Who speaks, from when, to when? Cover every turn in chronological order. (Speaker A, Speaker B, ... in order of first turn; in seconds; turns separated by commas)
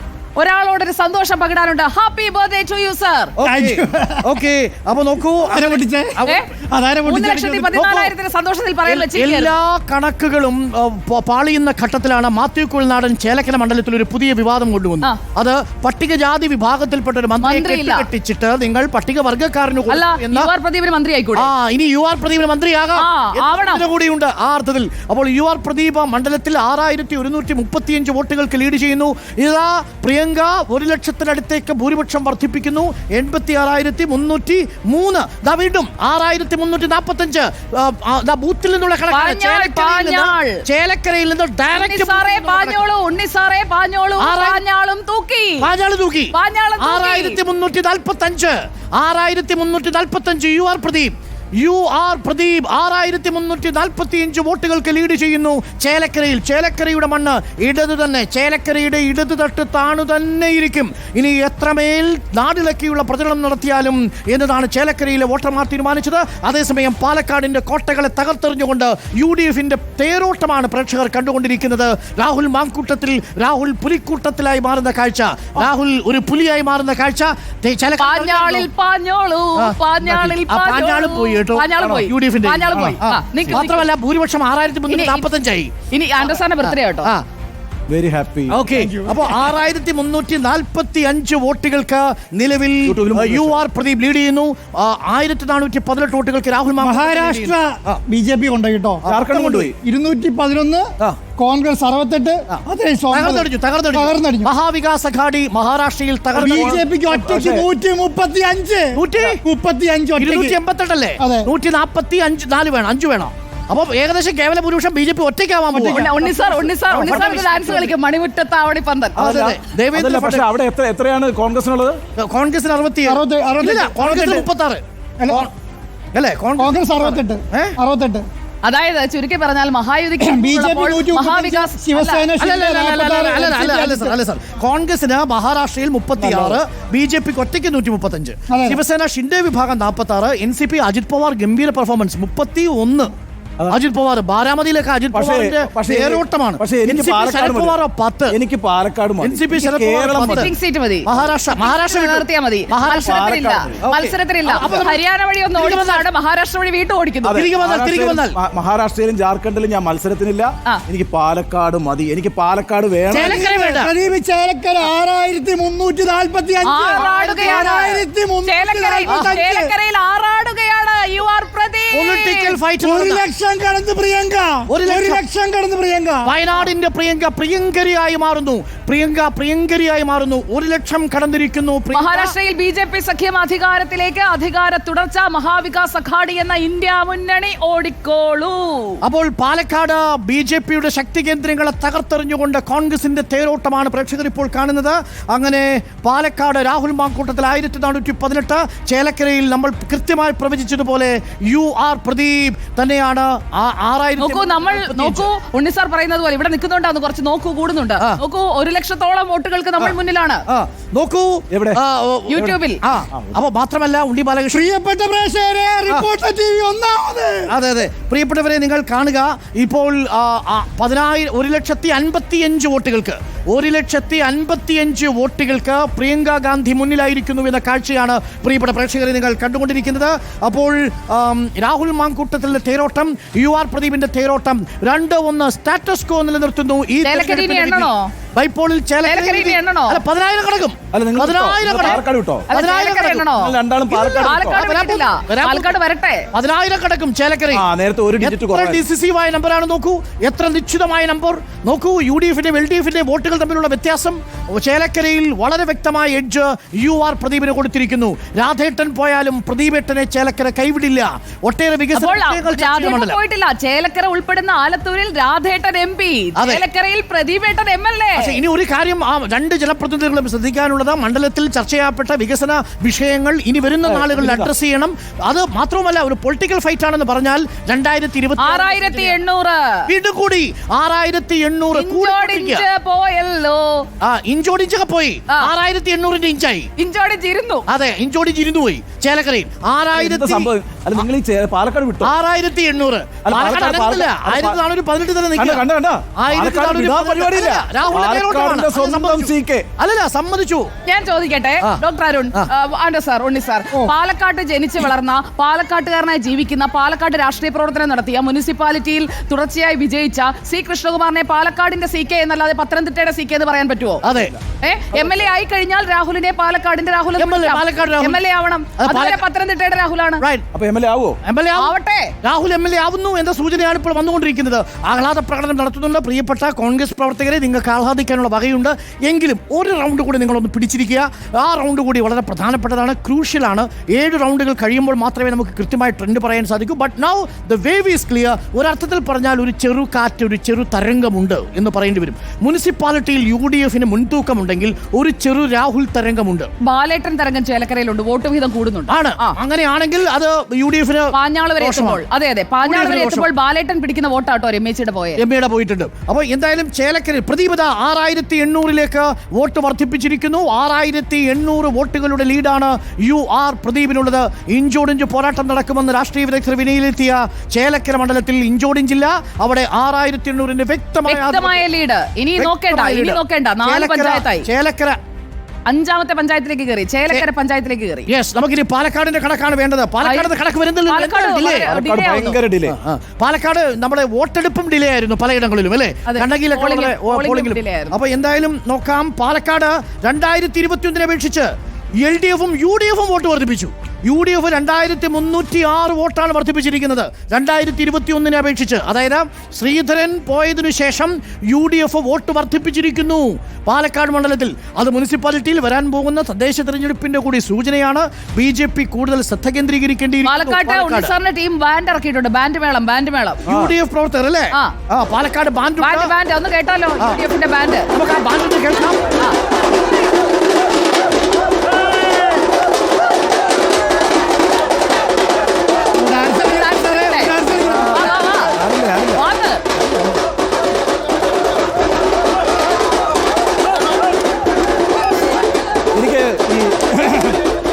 Speaker A: 0.3-3.3, Speaker B: 3.4-6.4, Speaker C: 3.4-4.2, Speaker C: 5.5-7.9, Speaker A: 7.0-9.5, Speaker B: 7.7-8.1, Speaker B: 8.8-20.5, Speaker A: 17.4-18.1, Speaker A: 19.9-21.5, Speaker B: 21.3-42.8, Speaker A: 23.0-23.9, Speaker A: 39.1-40.6, Speaker A: 41.7-45.7, Speaker B: 44.2-44.6, Speaker B: 45.6-78.7, Speaker A: 46.3-47.4, Speaker A: 78.0-83.9, Speaker B: 79.5-85.7, Speaker D: 82.7-83.0, Speaker A: 84.9-85.2, Speaker A: 85.9-87.1, Speaker B: 86.3-87.2, Speaker D: 87.9-88.6, Speaker B: 88.5-98.0, Speaker C: 88.7-89.3, Speaker D: 92.8-93.7, Speaker C: 96.8-104.5, Speaker D: 99.1-99.7, Speaker B: 99.1-99.5, Speaker B: 102.5-106.8, Speaker C: 106.3-110.6, Speaker D: 106.5-107.7, Speaker B: 108.9-109.4, Speaker B: 110.2-116.1, Speaker C: 111.2-111.5, Speaker C: 115.7-116.6, Speaker A: 115.8-119.2, Speaker B: 116.9-117.9, Speaker D: 119.2-122.0, Speaker B: 119.2-120.5, Speaker B: 122.2-125.5, Speaker C: 123.0-124.5, Speaker C: 125.2-125.5, Speaker B: 126.1-127.7, Speaker C: 126.6-128.2, Speaker A: 128.6-132.3, Speaker C: 130.2-134.1, Speaker B: 132.4-143.1, Speaker D: 136.2-136.6, Speaker C: 138.5-138.8, Speaker B: 143.7-148.3, Speaker D: 145.1-147.8, Speaker D: 148.3-150.5, Speaker B: 149.2-150.5, Speaker A: 150.2-157.4, Speaker B: 151.1-153.3, Speaker D: 153.0-153.8, Speaker B: 153.8-155.0, Speaker B: 155.5-156.0, Speaker D: 157.2-163.4, Speaker B: 157.3-158.3, Speaker B: 163.1-163.9, Speaker C: 163.2-169.7, Speaker A: 166.6-172.5, Speaker B: 167.0-167.6, Speaker B: 171.9-173.2, Speaker C: 172.8-176.3, Speaker B: 174.7-175.2, Speaker B: 176.2-182.3, Speaker A: 181.9-189.0, Speaker B: 189.0-205.3, Speaker A: 204.2-210.4, Speaker B: 210.5-214.7, Speaker D: 211.5-211.8, Speaker A: 212.3-212.8, Speaker D: 213.1-213.4, Speaker C: 214.5-217.5, Speaker B: 217.5-242.0, Speaker A: 237.0-238.1, Speaker A: 239.0-240.0, Speaker D: 240.9-242.5, Speaker A: 242.5-246.3, Speaker B: 242.5-243.2, Speaker D: 243.3-244.6, Speaker B: 243.9-245.7, Speaker B: 246.3-247.6, Speaker D: 247.5-248.8, Speaker B: 248.2-263.2, Speaker A: 261.9-268.4, Speaker B: 266.4-266.6, Speaker B: 268.1-279.1, Speaker D: 273.8-274.5, Speaker A: 278.4-279.8, Speaker B: 279.9-282.6, Speaker A: 281.7-283.9, Speaker B: 284.0-286.7, Speaker A: 286.8-287.6, Speaker B: 287.7-290.5, Speaker D: 289.9-292.1, Speaker B: 292.0-295.6, Speaker D: 293.2-294.6, Speaker D: 295.4-299.7, Speaker B: 296.2-300.7, Speaker A: 300.9-314.0, Speaker B: 314.0-314.3, Speaker A: 314.6-320.2, Speaker B: 317.2-318.2, Speaker B: 318.8-319.2, Speaker D: 320.5-321.2, Speaker B: 321.2-346.5, Speaker A: 321.6-322.1, Speaker A: 346.6-349.3, Speaker B: 348.9-352.0, Speaker A: 351.1-355.2, Speaker B: 352.6-353.2, Speaker B: 355.2-371.6, Speaker A: 371.1-374.5, Speaker B: 372.4-375.0, Speaker A: 375.7-378.1, Speaker B: 378.1-381.7, Speaker A: 380.0-380.3, Speaker A: 380.9-382.4, Speaker D: 381.7-382.8, Speaker B: 382.7-411.1, Speaker A: 386.1-387.9, Speaker A: 410.2-413.4, Speaker B: 413.4-416.1, Speaker D: 413.5-413.7, Speaker A: 415.8-417.9, Speaker B: 417.9-419.0, Speaker C: 425.9-428.0, Speaker A: 426.4-427.3, Speaker A: 427.9-428.5, Speaker D: 428.5-429.2, Speaker A: 429.1-429.6, Speaker D: 429.8-430.1, Speaker D: 435.9-437.4